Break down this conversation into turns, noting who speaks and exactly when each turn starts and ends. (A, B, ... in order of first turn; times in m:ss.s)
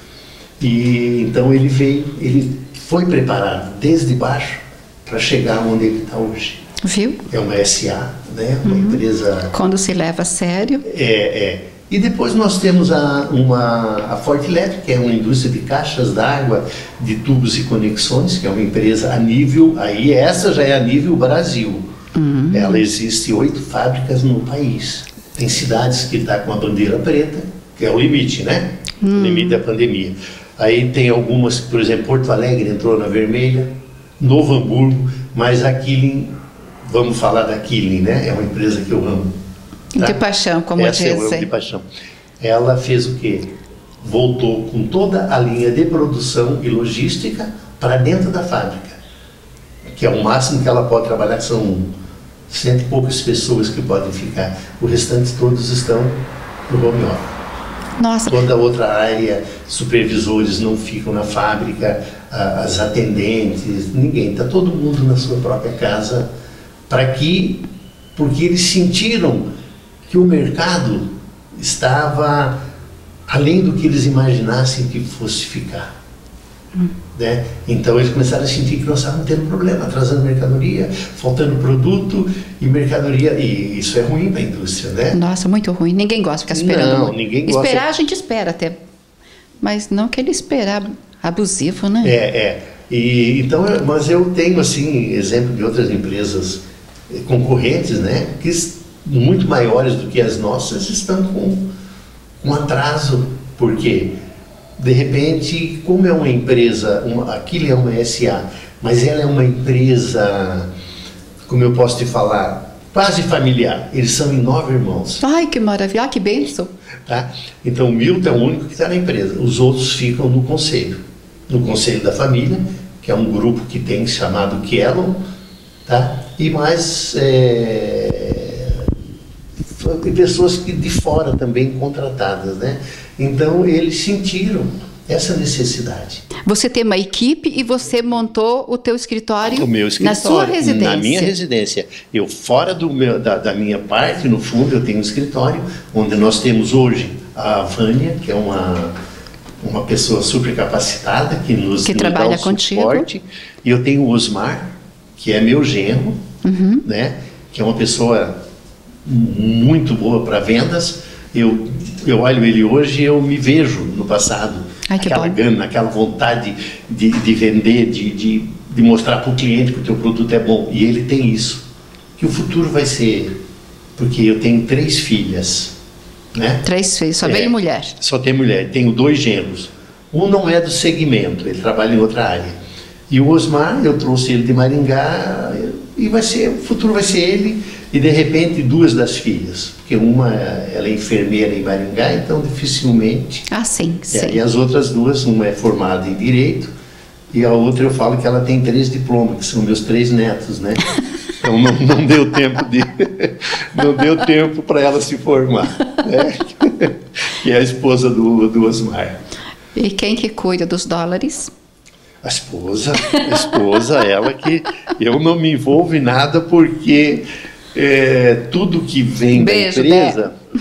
0:00.6-0:06.6 A
0:06.8-0:07.2 B
0:07.3-0:09.5 A
0:08.6-0:10.8 B
0:10.8-0:21.8 A
0:22.2-0:22.8 B
0:22.5-0:39.3 A
0:29.0-0:29.6 B
0:40.0-0:41.5 B
0:40.0-0:40.2 A
0:40.8-0:41.8 A
0:42.4-0:49.0 A
0:50.0-0:51.9 A
0:52.5-0:57.3 A
0:58.0-0:58.4 B
0:58.3-1:06.3 A
1:06.9-1:07.6 A
1:08.2-1:09.5 A
1:10.1-1:12.6 A
1:13.3-1:15.9 A
1:17.2-1:25.2 A
1:25.1-1:28.8 B
1:26.5-1:27.8 A
1:29.6-1:32.2 B
1:32.0-1:41.7 A
1:42.4-1:44.2 A
1:44.8-1:50.7 A
1:51.5-1:55.2 A
1:55.2-1:56.7 B
1:57.1-2:05.2 A
2:05.8-2:08.9 A
2:09.8-2:16.3 A
2:16.4-2:21.3 B
2:19.4-2:28.9 A
2:29.6-2:36.2 A
2:31.8-2:33.1 B
2:36.4-2:36.8 B
2:36.8-2:38.4 A
2:39.0-2:51.6 A
2:44.9-2:45.4 B
2:52.2-2:53.4 A
2:54.0-2:55.7 A
2:56.3-2:56.6 A
2:56.6-2:58.0 B
2:57.2-3:02.6 A
3:03.1-3:13.5 A
3:13.5-3:14.4 B
3:14.1-3:16.7 A
3:17.3-3:20.8 A
3:21.4-3:29.2 A
3:29.8-3:31.5 B
3:32.2-3:40.3 A
3:33.0-3:33.6 B
3:39.3-3:40.2 B